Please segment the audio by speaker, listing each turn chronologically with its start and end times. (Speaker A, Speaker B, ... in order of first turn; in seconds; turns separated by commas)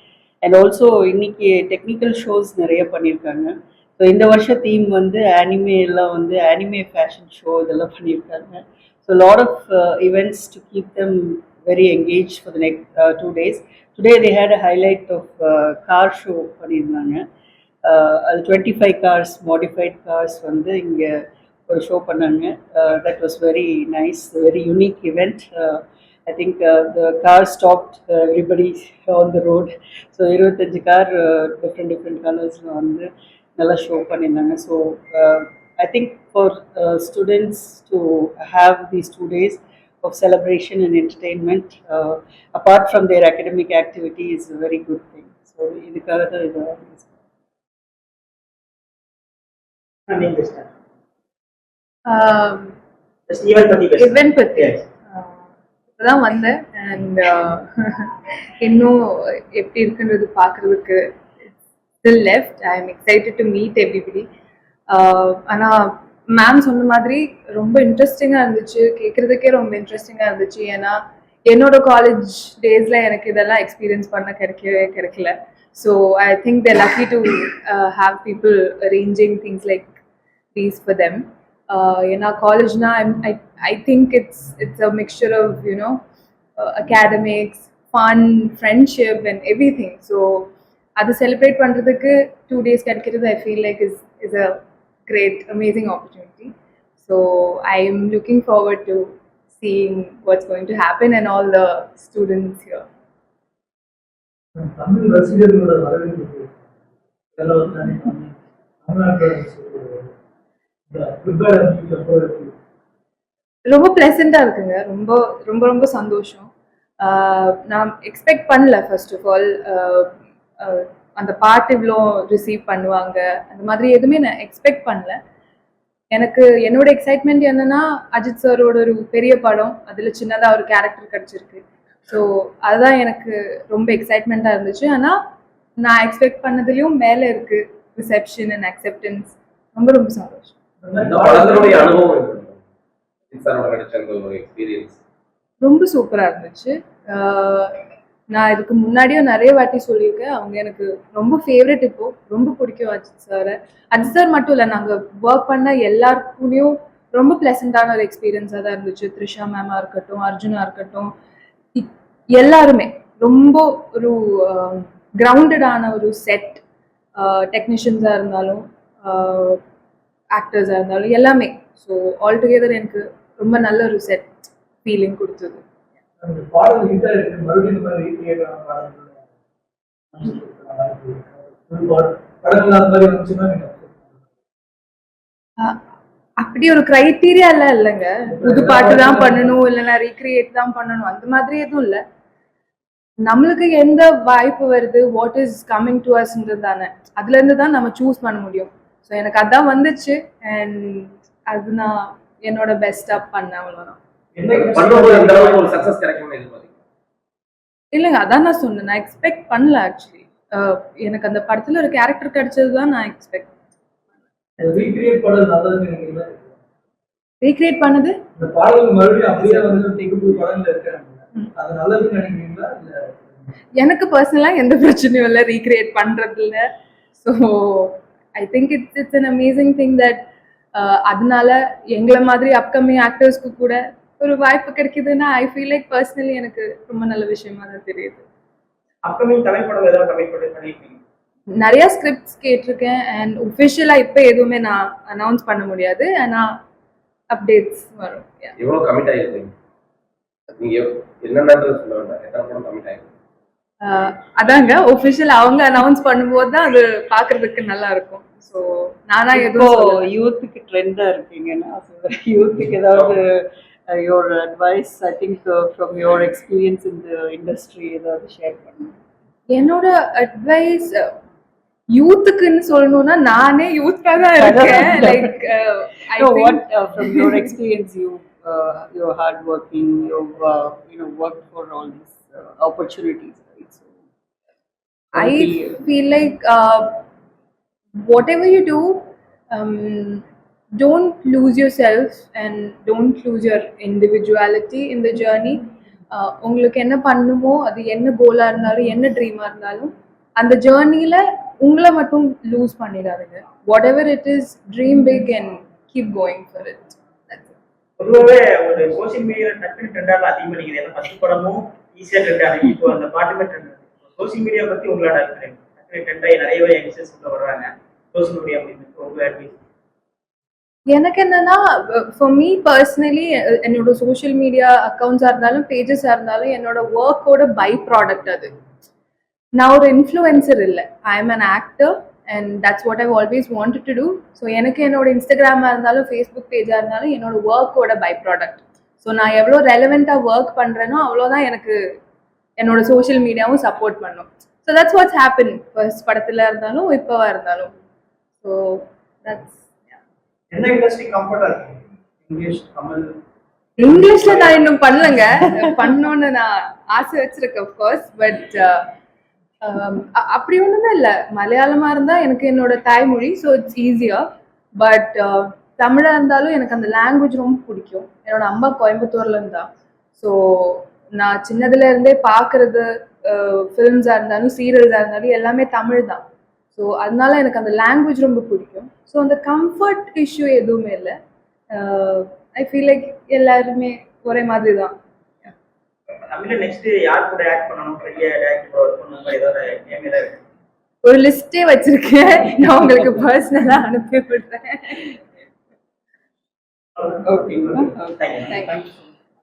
Speaker A: 0.4-17.2, Speaker A: 17.8-47.2, Speaker B: 50.1-50.7, Speaker C: 52.1-52.8, Speaker B: 53.3-54.8, Speaker C: 54.0-55.4, Speaker C: 56.0-61.0, Speaker C: 62.0-64.3, Speaker C: 64.9-71.0, Speaker C: 71.5-79.9, Speaker C: 80.5-86.0, Speaker C: 86.6-102.8, Speaker D: 104.5-106.5, Speaker D: 107.3-110.1, Speaker D: 110.9-112.5, Speaker C: 113.6-125.2, Speaker C: 126.1-135.2, Speaker C: 135.8-140.5, Speaker D: 140.8-142.0, Speaker E: 141.0-142.6, Speaker E: 143.3-145.0, Speaker C: 145.6-147.8, Speaker C: 148.3-161.1, Speaker C: 161.7-166.6, Speaker C: 167.2-169.6, Speaker C: 170.3-174.3, Speaker C: 174.8-175.6, Speaker D: 176.2-179.2, Speaker D: 180.1-184.1, Speaker C: 186.4-192.0, Speaker D: 188.3-189.5, Speaker C: 193.2-204.0, Speaker D: 204.3-205.9, Speaker E: 204.5-206.7, Speaker C: 207.9-213.5, Speaker D: 214.6-216.5, Speaker C: 217.4-218.2, Speaker D: 218.4-223.3, Speaker C: 223.8-226.7, Speaker C: 227.2-230.2, Speaker C: 230.7-238.2, Speaker B: 239.0-241.0, Speaker C: 241.6-246.5, Speaker C: 247.3-248.5, Speaker E: 248.6-249.5, Speaker E: 250.6-253.1, Speaker C: 253.8-260.1, Speaker A: 259.3-268.9, Speaker E: 262.6-263.2, Speaker C: 269.5-271.1, Speaker C: 271.9-277.4, Speaker A: 274.4-275.4, Speaker A: 276.2-284.0, Speaker A: 285.1-285.8, Speaker C: 285.1-287.0, Speaker C: 288.0-290.2, Speaker C: 290.8-307.5, Speaker B: 308.0-319.6, Speaker C: 320.9-328.5, Speaker C: 329.6-341.8, Speaker C: 342.6-347.7, Speaker C: 348.4-350.0, Speaker D: 350.5-353.2, Speaker C: 353.8-358.9, Speaker D: 353.8-354.6, Speaker C: 359.6-364.2, Speaker C: 364.8-376.2, Speaker C: 376.7-381.1, Speaker C: 381.7-384.9, Speaker B: 386.3-390.4, Speaker C: 391.0-395.2, Speaker B: 397.0-398.5, Speaker A: 397.2-399.0, Speaker C: 398.5-398.8